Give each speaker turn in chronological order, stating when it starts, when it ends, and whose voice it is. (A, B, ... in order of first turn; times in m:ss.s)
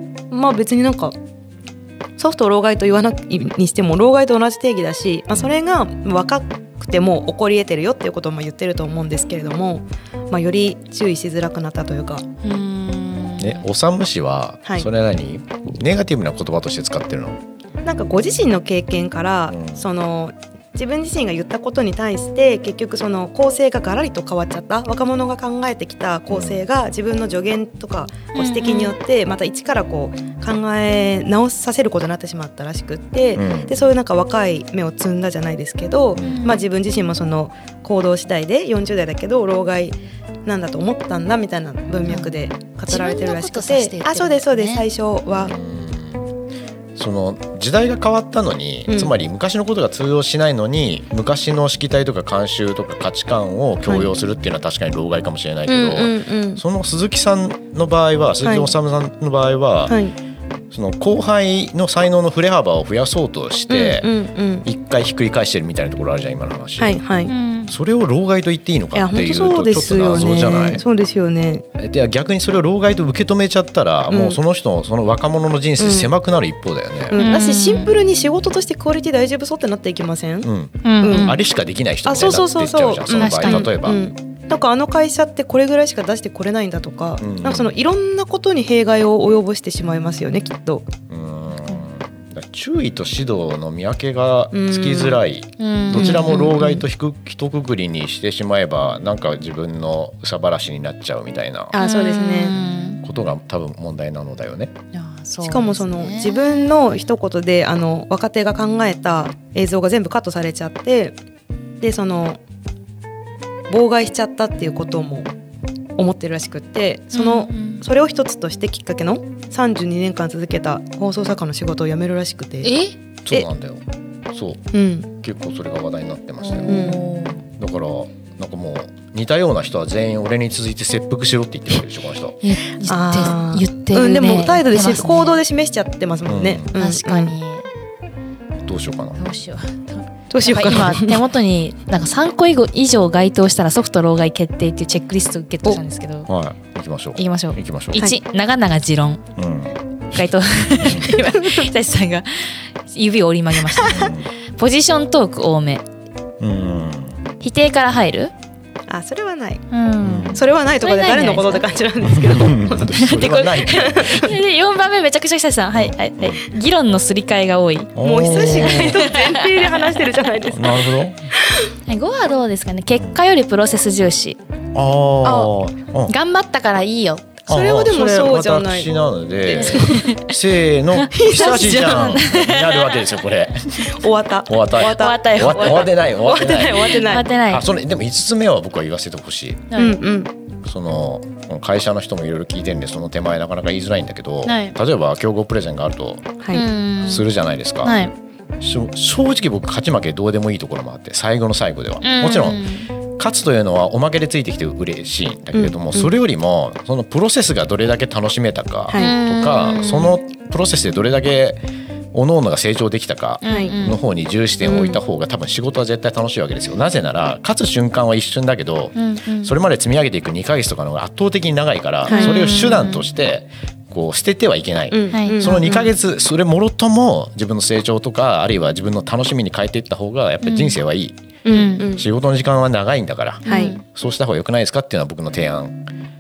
0:00.3-0:01.1 A
0:02.2-0:12.2 A
0:12.4-0:13.6 B
0:13.4-0:17.4 C
0:17.8-0:45.5 A
0:19.5-0:19.8 C
0:26.3-0:26.6 C
0:28.4-0:29.0 B
0:33.3-0:33.7 C
0:36.1-0:36.4 C
0:36.2-0:36.6 B
0:42.0-0:42.3 B
0:42.8-0:44.8 B
0:45.3-0:46.3 C
0:47.0-1:00.0 C
0:48.9-0:49.1 A
0:55.7-0:56.6 A
0:58.4-0:58.7 A
0:59.9-1:00.2 A
1:00.7-1:04.1 C
1:03.7-1:04.6 A
1:04.6-1:07.0 C
1:06.8-1:07.3 A
1:07.2-1:07.7 B
1:07.7-1:10.8 C
1:08.9-1:11.6 A
1:11.8-1:17.2 C
1:14.1-1:14.4 A
1:15.8-1:16.1 A
1:17.1-1:21.4 A
1:17.1-1:18.0 B
1:20.4-1:24.0 C
1:20.8-1:21.4 B
1:22.0-1:30.9 A
1:23.1-1:23.7 B
1:27.2-1:27.7 C
1:31.1-1:41.7 C
1:34.5-1:35.2 A
1:35.6-1:36.4 B
1:35.9-1:36.8 A
1:41.7-1:42.6 A
1:41.8-1:43.0 B
1:43.0-1:44.7 C
1:44.9-1:46.6 B
1:45.4-1:51.2 A
1:51.8-1:52.4 A
1:53.7-1:55.3 A
1:56.0-2:02.7 A
1:57.1-1:57.8 B
2:02.6-2:03.0 B
2:03.2-2:04.6 C
2:04.7-2:05.1 A
2:05.2-2:06.9 C
2:06.4-2:07.4 B
2:06.6-2:07.0 A
2:07.6-2:12.4 C
2:12.4-2:15.4 B
2:12.8-2:17.3 A
2:16.2-2:16.7 C
2:16.7-2:17.7 B
2:18.6-2:19.2 C
2:19.2-2:26.3 B
2:20.3-2:21.2 A
2:26.3-2:28.0 C
2:27.1-2:29.2 B
2:29.4-2:29.8 C
2:30.1-2:35.8 B
2:30.8-2:31.1 C
2:33.8-2:34.3 C
2:36.4-2:37.2 C
2:37.4-2:38.3 B
2:38.9-2:39.6 A
2:39.7-2:41.7 B
2:40.0-2:40.4 C
2:40.3-2:42.9 A
2:42.1-2:44.4 C
2:42.9-2:47.9 B
2:43.7-2:44.2 A
2:45.7-2:46.4 C
2:48.0-2:49.0 C
2:48.0-2:50.9 A
2:48.4-2:49.8 B
2:50.5-2:51.3 C
2:51.8-2:54.4 B
2:54.7-2:56.1 C
2:56.1-2:57.4 B
2:57.5-3:03.9 C
2:57.5-2:58.9 A
2:59.5-3:00.3 B
2:59.5-3:00.1 A
3:01.1-3:02.0 A
3:01.2-3:03.0 B
3:03.8-3:07.3 A
3:04.4-3:09.7 C
3:04.8-3:05.9 B
3:06.9-3:07.7 B
3:09.7-3:10.0 B
3:09.8-3:10.3 A
3:10.6-3:16.3 C
3:14.4-3:14.8 B
3:16.5-3:17.3 B
3:17.0-3:18.0 C
3:17.8-3:18.1 B
3:18.6-3:51.2 C
3:22.0-3:22.9 B
3:25.5-3:26.1 A
3:28.9-3:29.2 A
3:28.9-3:30.2 B
3:33.4-3:34.0 B
3:33.4-3:33.8 A
3:34.7-3:35.0 B
3:38.9-3:39.5 B
3:42.1-3:42.4 A
3:42.1-3:43.1 B
3:44.9-3:45.9 A
3:45.1-3:45.5 B
3:50.4-3:50.8 B
3:51.4-3:52.0 A
3:51.5-3:51.9 B
3:51.9-3:55.8 C
3:53.4-3:53.8 A
3:53.4-3:53.8 B